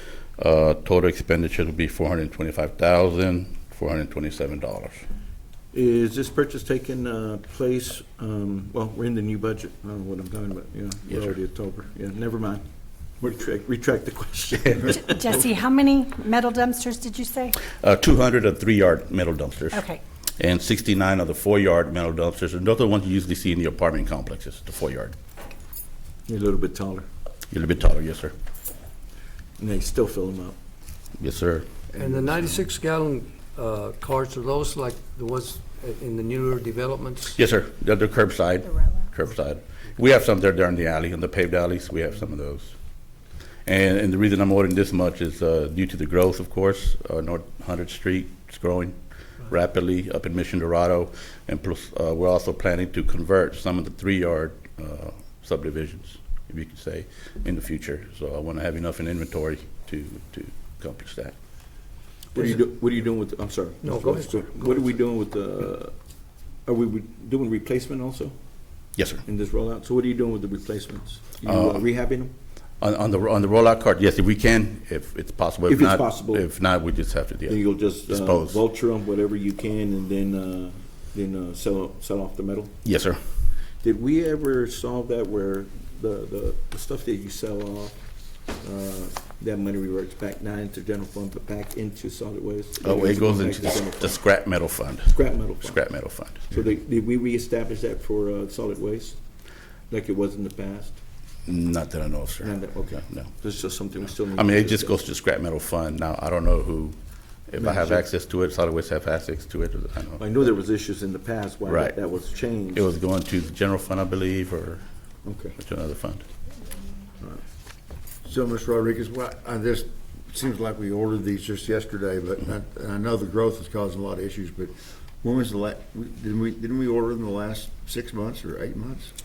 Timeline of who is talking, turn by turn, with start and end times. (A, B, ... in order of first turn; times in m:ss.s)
0:00.4-0:05.0 A
0:05.7-0:12.6 B
0:13.2-0:15.4 B
0:14.9-0:17.6 C
0:17.7-0:19.8 A
0:19.7-0:20.0 C
0:20.4-0:25.1 A
0:26.3-0:27.0 B
0:27.5-0:28.3 A
0:29.6-0:30.6 B
0:31.2-0:31.7 A
0:32.0-0:37.4 D
0:32.0-0:32.5 E
0:37.4-0:43.1 A
0:43.6-1:01.3 A
1:02.3-1:05.9 B
1:03.8-1:05.0 D
1:06.6-1:08.3 B
1:09.0-1:09.2 A
1:09.2-1:12.3 B
1:11.4-1:11.8 A
1:12.8-1:18.6 A
1:15.7-1:16.5 B
1:17.5-1:22.7 B
1:22.8-1:23.2 A
1:23.8-1:28.0 B
1:28.5-1:34.4 B
1:32.8-1:36.5 A
1:35.1-1:39.2 B
1:39.9-1:41.0 B
1:41.5-1:43.3 A
1:42.4-1:45.0 B
1:44.3-1:50.2 A
1:47.6-1:48.0 B
1:50.2-1:52.9 B
1:51.7-1:52.0 A
1:52.7-1:54.8 A
1:55.2-1:55.6 B
1:55.6-1:56.2 A
1:58.2-2:09.1 E